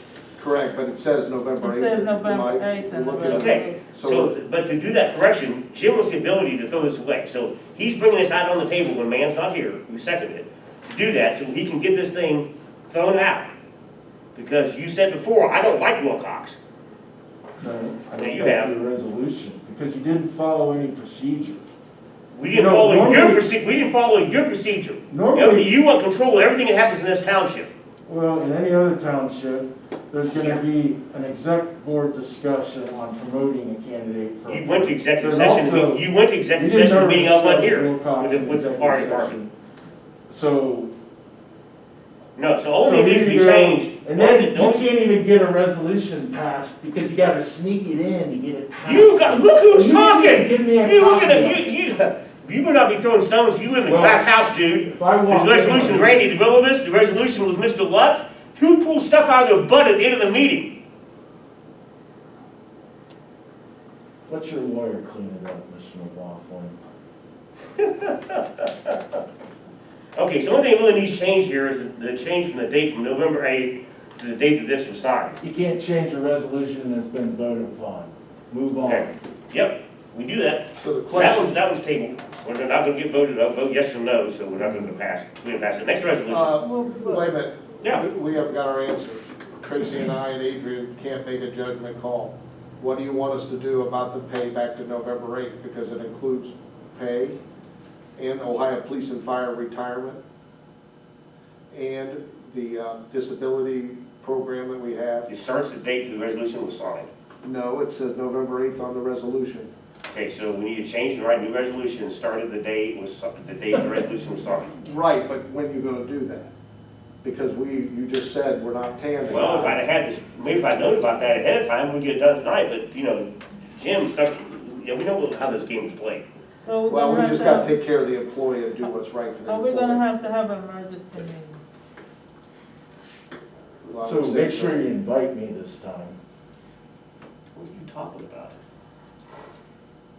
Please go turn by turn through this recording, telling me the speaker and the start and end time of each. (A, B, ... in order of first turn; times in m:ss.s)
0:00.4-0:04.3 A
0:01.6-0:03.8 B
0:03.2-0:13.5 C
0:14.3-0:16.6 C
0:17.6-0:21.6 D
0:18.2-0:18.7 C
0:22.3-0:27.7 C
0:22.5-0:23.4 D
0:25.1-0:25.7 D
0:28.1-0:39.5 D
0:30.3-0:30.6 C
0:34.5-0:39.4 C
0:40.3-0:40.9 D
0:42.3-0:44.9 C
0:42.8-0:51.6 D
0:48.8-1:00.7 C
0:53.8-0:54.3 D
0:54.8-0:56.3 D
1:04.3-1:06.8 D
1:07.8-1:09.0 C
1:10.1-1:15.4 C
1:15.4-1:19.1 D
1:18.8-1:26.5 C
1:20.8-1:21.6 A
1:26.3-1:37.4 A
1:26.5-1:27.3 B
1:38.2-1:40.2 A
1:41.7-1:45.3 A
1:45.3-1:47.1 C
1:47.4-1:49.7 A
1:50.1-1:55.0 C
1:54.9-1:56.5 A
1:57.2-1:59.8 A
1:59.3-2:06.2 C
2:06.6-2:07.7 B
2:06.9-2:10.0 A
2:09.5-2:11.6 B
2:13.8-2:14.8 A
2:14.0-2:16.2 D
2:17.5-2:18.6 C